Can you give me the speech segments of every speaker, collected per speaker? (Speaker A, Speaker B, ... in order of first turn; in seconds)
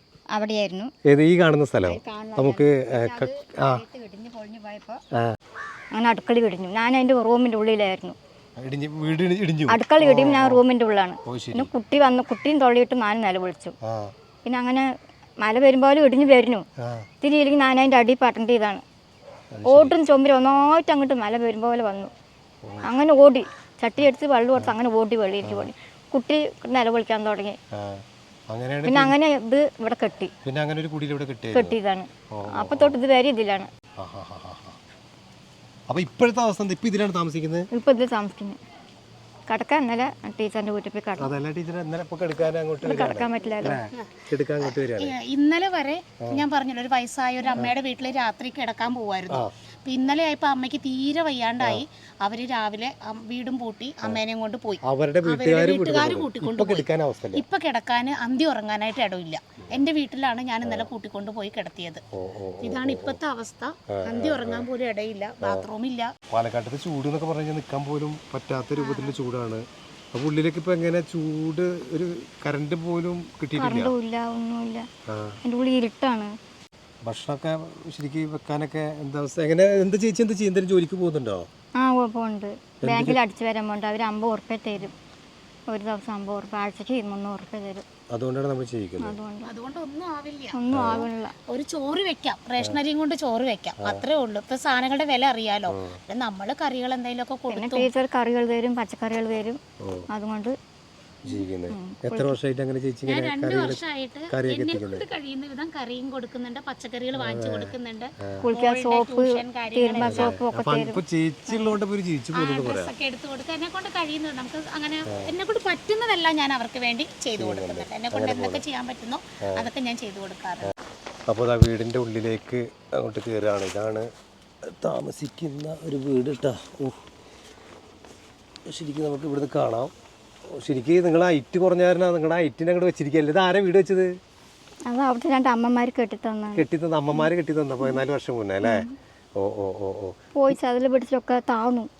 Speaker A: 0.3-0.9, 1.8-5.0, 5.9-8.2, 9.7-13.7, 14.4-14.8, 15.4-16.6, 17.2-18.8, 19.6-22.1, 22.8-27.6, 28.9-30.3, 31.5-33.7, 37.7-38.6, 39.5-41.3, 42.8-43.8, 73.5-74.9, 75.4-76.3, 81.8-84.9, 85.7-87.8, 89.0-89.5, 90.5-91.3, 97.5-100.5, 101.3-102.3, 108.4-111.0, 134.8-137.3, 138.6-138.9, 140.3-141.9
Speaker B: 1.1-3.8, 8.6-10.6, 11.2-11.7, 13.8-14.1, 19.5-19.9, 25.4-25.7, 27.7-29.1, 30.4-31.7, 32.3-32.9, 34.0-34.8, 35.9-37.7, 41.2-45.1, 54.8-57.4, 60.6-60.9, 62.1-63.2, 63.9-64.7, 65.4-65.7, 66.3-73.9, 75.1-75.4, 77.0-81.5, 82.8-83.2, 88.1-89.2, 90.7-91.0, 95.7-96.0, 101.2-105.0, 107.2-108.4, 110.0-112.9, 117.4-118.6, 121.3-124.1, 124.7-127.0, 128.7-129.9, 130.5-134.1, 136.5-138.8, 139.4-140.2
Speaker C: 44.6-62.0, 62.6-66.1, 68.8-69.2, 89.4-90.6, 91.5-97.9, 103.1-110.4, 111.5-111.8, 112.3-120.7